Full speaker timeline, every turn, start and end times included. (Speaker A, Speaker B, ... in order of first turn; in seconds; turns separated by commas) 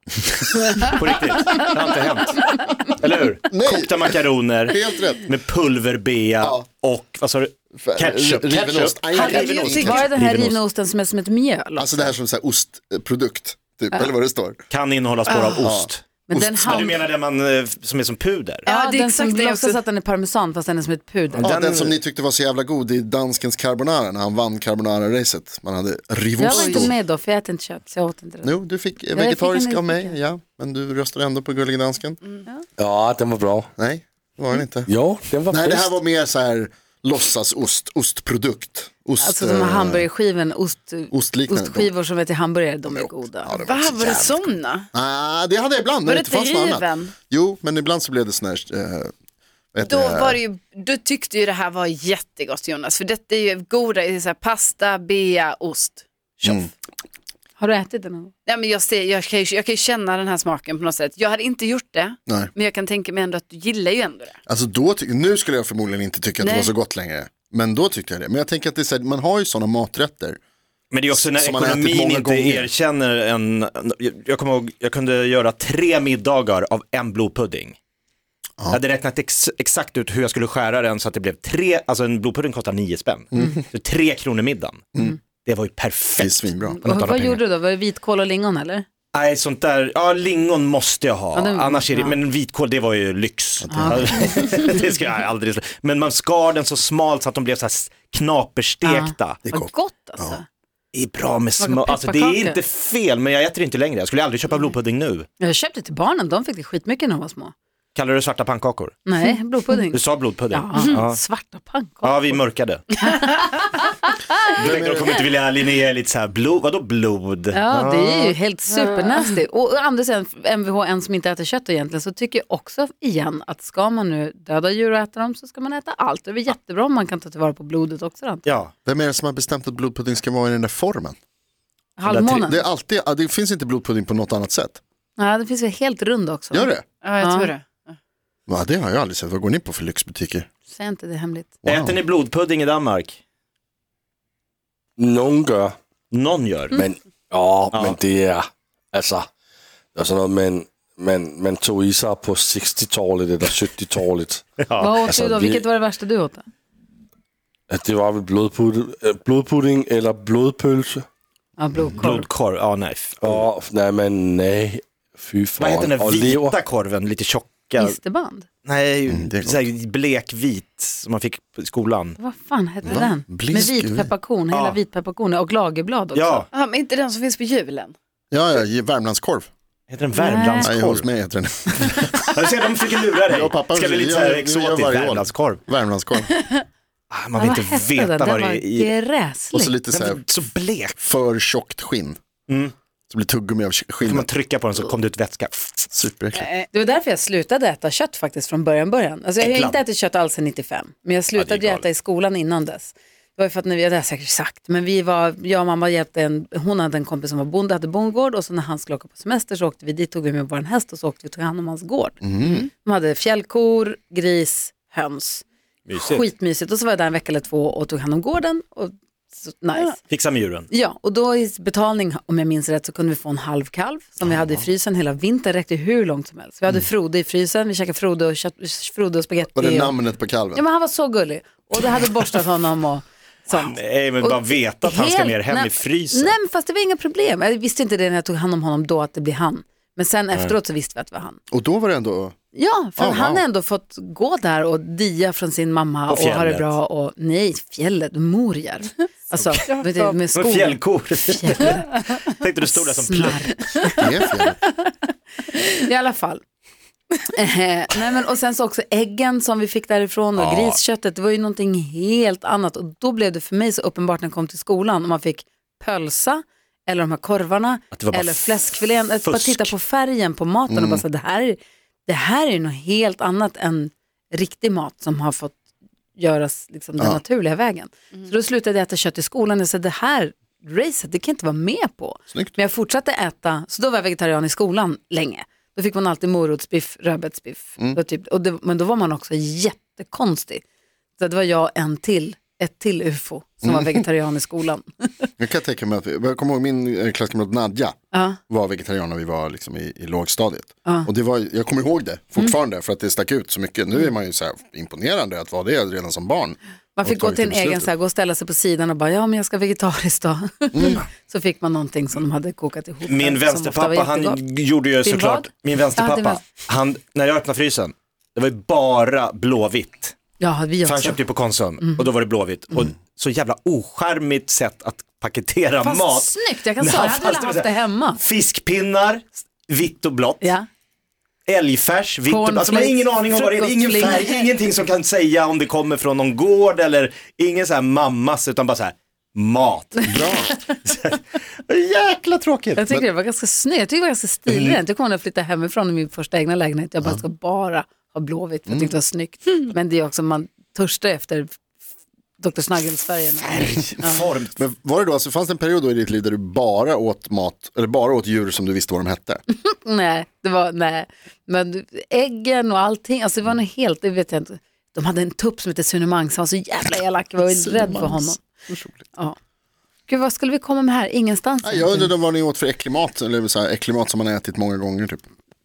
Speaker A: 0.5-0.8, Speaker B: 0.8-10.2, Speaker A: 3.5-5.2, Speaker A: 7.8-10.6, Speaker C: 9.2-10.0, Speaker D: 9.3-12.1, Speaker A: 11.8-14.6, Speaker B: 14.7-16.0, Speaker C: 15.3-15.6, Speaker A: 15.6-17.0, Speaker D: 16.3-17.0, Speaker B: 16.6-18.7, Speaker C: 18.6-19.8, Speaker D: 18.7-21.5, Speaker B: 21.3-22.0, Speaker A: 21.4-26.9, Speaker D: 26.4-28.5, Speaker C: 26.4-26.9, Speaker A: 28.4-32.2, Speaker D: 29.1-30.2, Speaker E: 32.8-33.7, Speaker A: 33.8-34.9, Speaker E: 34.9-36.0, Speaker A: 35.5-40.1, Speaker D: 39.2-43.5, Speaker A: 41.1-41.9, Speaker A: 42.9-49.1, Speaker C: 43.6-44.9, Speaker C: 46.1-47.1, Speaker A: 49.7-50.4, Speaker C: 49.8-56.6, Speaker D: 57.6-58.3, Speaker C: 58.5-64.4, Speaker A: 64.5-70.4, Speaker C: 66.4-66.7, Speaker B: 70.9-77.8, Speaker A: 71.1-72.7, Speaker B: 78.7-87.4, Speaker A: 83.3-83.6, Speaker A: 86.2-86.8, Speaker D: 86.7-88.9, Speaker B: 89.1-99.5, Speaker D: 91.3-92.2, Speaker A: 93.6-94.3, Speaker D: 93.7-94.7, Speaker D: 98.8-100.5, Speaker A: 99.5-100.4, Speaker B: 100.9-105.3, Speaker D: 101.6-102.6, Speaker D: 105.4-107.5, Speaker B: 108.0-109.0, Speaker D: 109.1-112.4, Speaker B: 109.9-111.2, Speaker B: 112.0-113.0, Speaker D: 113.0-114.1, Speaker B: 114.5-118.4, Speaker A: 114.6-115.2, Speaker D: 117.5-128.6, Speaker B: 128.4-128.7, Speaker A: 128.9-131.2, Speaker D: 132.0-132.6, Speaker B: 132.1-132.5, Speaker A: 132.2-134.8, Speaker D: 135.2-137.5, Speaker A: 136.5-136.8, Speaker C: 137.0-138.0, Speaker A: 138.5-140.5, Speaker D: 140.7-141.5, Speaker A: 141.6-142.0, Speaker B: 141.7-143.2, Speaker E: 145.0-145.8, Speaker B: 146.1-146.8, Speaker E: 146.8-149.3, Speaker B: 147.7-148.0, Speaker E: 149.9-154.4, Speaker B: 154.6-155.0, Speaker D: 154.8-156.5, Speaker E: 155.0-155.6, Speaker E: 157.7-161.1, Speaker D: 161.6-162.3, Speaker B: 162.0-163.4, Speaker E: 163.2-166.6, Speaker B: 165.6-168.0, Speaker D: 167.8-168.5, Speaker B: 168.7-172.2, Speaker A: 169.1-169.6, Speaker D: 172.2-176.5, Speaker A: 172.8-174.1, Speaker B: 174.5-174.8, Speaker B: 176.1-176.5, Speaker C: 176.5-177.9, Speaker A: 178.3-179.5, Speaker B: 179.9-181.1, Speaker D: 180.2-180.7, Speaker A: 180.6-182.3, Speaker D: 181.8-182.0, Speaker B: 182.2-185.6, Speaker A: 183.3-186.3, Speaker B: 187.1-188.9, Speaker D: 187.4-189.8, Speaker A: 189.5-190.2, Speaker B: 189.9-191.0, Speaker A: 191.0-192.2, Speaker B: 192.5-192.7, Speaker A: 193.1-194.3, Speaker B: 194.0-195.9, Speaker A: 195.9-196.5, Speaker C: 196.3-196.7, Speaker D: 196.7-220.0, Speaker B: 199.4-199.8, Speaker B: 201.4-201.8, Speaker A: 212.2-212.7, Speaker B: 215.9-216.2, Speaker B: 220.1-220.7, Speaker D: 220.7-229.9, Speaker A: 224.2-224.7, Speaker A: 229.6-230.7, Speaker D: 230.5-241.4, Speaker B: 233.5-236.4, Speaker A: 241.5-242.4, Speaker D: 242.5-252.0, Speaker A: 243.0-243.4, Speaker B: 246.1-246.7, Speaker C: 249.6-250.2, Speaker B: 250.3-253.5, Speaker D: 252.7-254.0, Speaker C: 253.7-254.0, Speaker A: 253.9-254.6, Speaker D: 255.5-256.4, Speaker D: 257.3-275.6, Speaker B: 260.4-260.8, Speaker B: 267.9-268.6, Speaker B: 269.2-269.7, Speaker A: 270.7-271.0, Speaker D: 276.2-290.6, Speaker D: 291.2-295.1, Speaker A: 293.6-294.1, Speaker A: 295.4-298.0, Speaker A: 298.5-307.9, Speaker D: 307.0-314.4, Speaker A: 310.7-311.1, Speaker B: 313.1-320.2, Speaker D: 315.0-316.4, Speaker D: 320.4-321.2, Speaker B: 320.8-330.5, Speaker D: 321.8-322.1, Speaker D: 325.8-328.2, Speaker B: 331.5-342.9, Speaker D: 332.3-334.5, Speaker A: 340.1-340.6, Speaker D: 342.8-351.6, Speaker A: 344.5-344.8, Speaker A: 348.7-348.9, Speaker D: 352.4-354.2, Speaker B: 353.4-354.6, Speaker A: 354.6-359.4, Speaker D: 359.5-368.4, Speaker A: 367.5-369.1, Speaker D: 370.1-372.1, Speaker A: 371.6-375.2